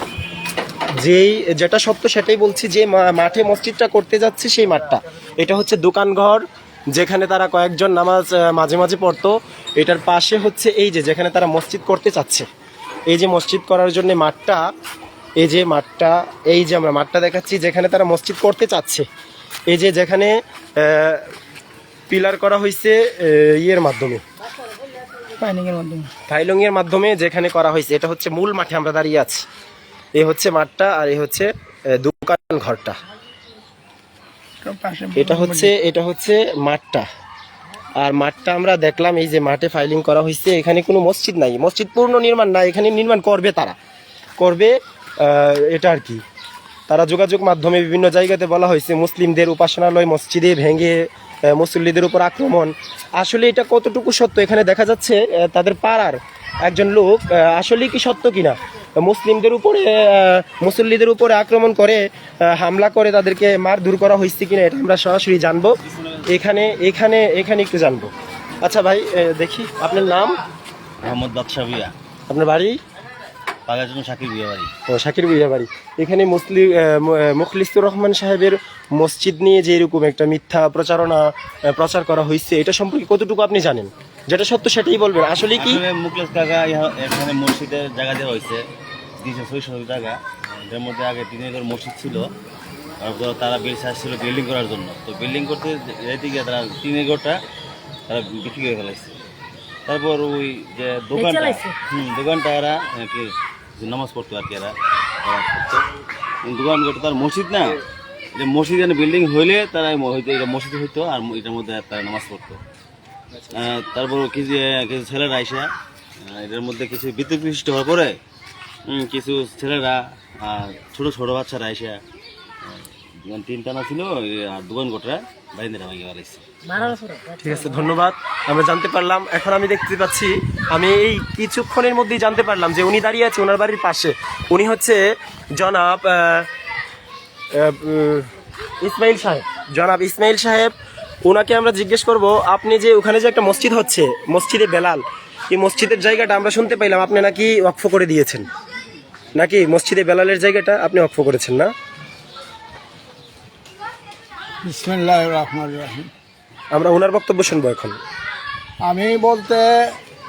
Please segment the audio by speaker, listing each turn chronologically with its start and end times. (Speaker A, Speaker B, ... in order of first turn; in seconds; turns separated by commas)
Speaker A: 1.0-12.5, Speaker A: 13.1-14.7, Speaker A: 15.4-19.1, Speaker A: 19.7-21.3, Speaker A: 22.1-24.2, Speaker A: 26.3-29.4, Speaker A: 30.1-33.0, Speaker A: 35.1-37.1, Speaker A: 38.0-43.8, Speaker A: 44.4-46.2, Speaker A: 46.9-65.8, Speaker A: 66.3-70.4, Speaker B: 71.0-71.9, Speaker A: 72.3-72.8, Speaker B: 73.7-74.7, Speaker A: 74.9-85.8, Speaker B: 85.6-88.6, Speaker B: 89.2-92.3, Speaker B: 93.0-97.4, Speaker B: 98.1-99.2, Speaker B: 99.9-105.8, Speaker B: 106.5-107.8, Speaker B: 108.4-112.6, Speaker B: 113.5-115.7, Speaker B: 116.3-118.2, Speaker B: 118.9-122.0, Speaker B: 122.6-127.0, Speaker A: 127.4-135.0, Speaker A: 135.6-136.5, Speaker A: 137.5-138.3, Speaker A: 138.8-140.7, Speaker A: 141.2-148.5, Speaker A: 149.4-151.7, Speaker C: 154.6-156.1, Speaker A: 156.7-158.0, Speaker C: 158.8-159.9